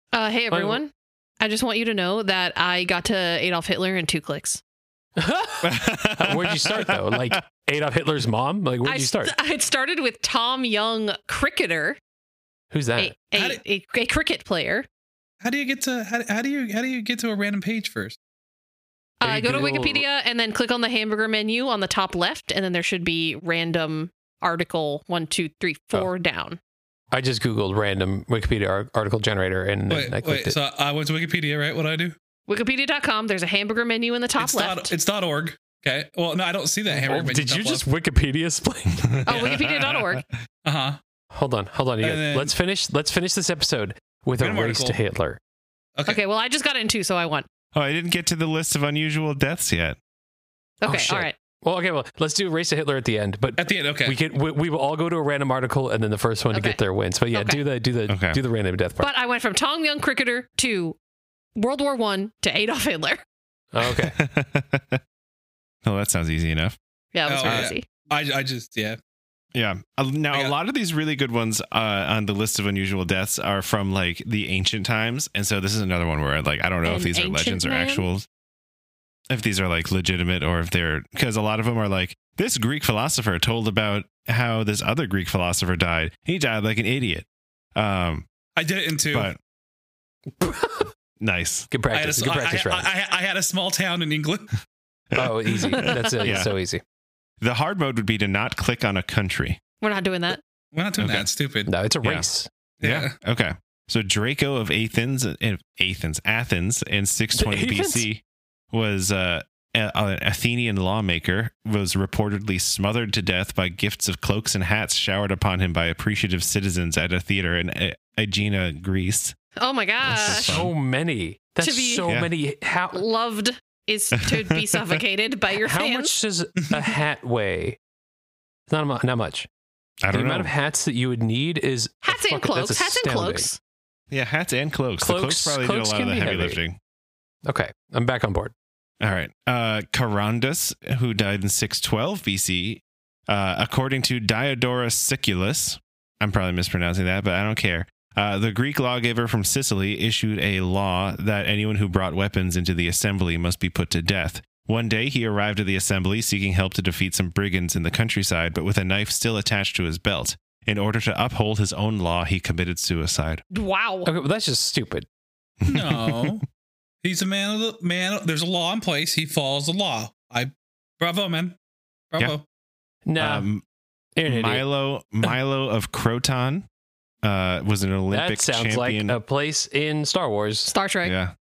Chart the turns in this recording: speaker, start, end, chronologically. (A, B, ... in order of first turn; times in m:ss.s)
0:00.1-0:04.6 A
0:00.5-0:00.8 B
0:05.2-0:09.3 B
0:05.6-0:07.4 C
0:08.8-0:12.0 A
0:12.7-0:13.1 B
0:13.0-0:14.9 A
0:13.3-0:13.6 D
0:15.4-0:18.2 D
0:19.2-0:26.6 A
0:19.2-0:20.0 B
0:27.1-0:30.6 B
0:29.9-0:32.2 D
0:32.5-0:34.9 A
0:34.4-0:37.8 D
0:36.9-0:39.3 B
0:39.0-0:40.2 C
0:39.2-0:40.2 A
0:40.6-0:41.0 D
0:41.3-0:45.4 B
0:42.0-0:42.5 D
0:44.4-0:45.0 D
0:46.0-0:47.5 A
0:47.7-0:50.0 C
0:50.8-0:51.3 A
0:50.8-0:59.1 B
0:53.6-0:54.2 D
0:56.5-0:56.8 A
0:57.3-0:57.6 A
0:58.1-0:58.4 C
0:59.0-1:01.0 A
1:01.6-1:03.2 A
1:03.7-1:04.2 B
1:03.8-1:05.0 C
1:05.8-1:06.8 C
1:07.1-1:07.8 A
1:07.3-1:09.0 D
1:07.4-1:07.7 C
1:09.5-1:18.2 C
1:16.8-1:18.0 A
1:19.3-1:28.2 C
1:28.6-1:29.3 D
1:29.1-1:29.4 C
1:30.4-1:30.9 B
1:31.2-1:31.7 C
1:31.7-1:32.9 B
1:31.9-1:34.5 D
1:35.1-1:36.5 C
1:35.1-1:36.8 B
1:37.4-1:39.6 C
1:39.8-1:40.4 A
1:40.7-1:41.7 D
1:41.0-1:41.3 C
1:41.7-1:42.5 B
1:42.8-1:43.1 D
1:42.8-1:48.2 C
1:47.4-1:48.1 B
1:48.7-1:59.3 C
1:59.6-2:00.6 A
2:00.0-2:00.7 C
2:00.2-2:03.0 B
2:01.6-2:02.1 A
2:02.9-2:06.1 A
2:04.3-2:04.9 C
2:05.6-2:07.8 B
2:08.7-2:09.5 B
2:10.0-2:10.5 C
2:10.1-2:13.5 B
2:12.0-2:13.6 A
2:14.1-2:16.8 C
2:15.0-2:16.6 B
2:17.4-2:18.5 B
2:19.0-2:43.4 C
2:43.5-2:44.1 A
2:44.0-2:45.0 B
2:45.6-2:46.4 C
2:45.7-2:46.4 D
2:47.0-2:51.6 D
2:52.1-2:52.4 D
2:53.0-2:53.5 B
2:53.2-2:53.6 C
2:54.2-2:54.6 B
2:54.2-2:56.6 C
2:57.2-2:59.2 C
2:58.1-3:00.7 B
3:00.7-3:01.1 A
3:01.0-3:01.3 C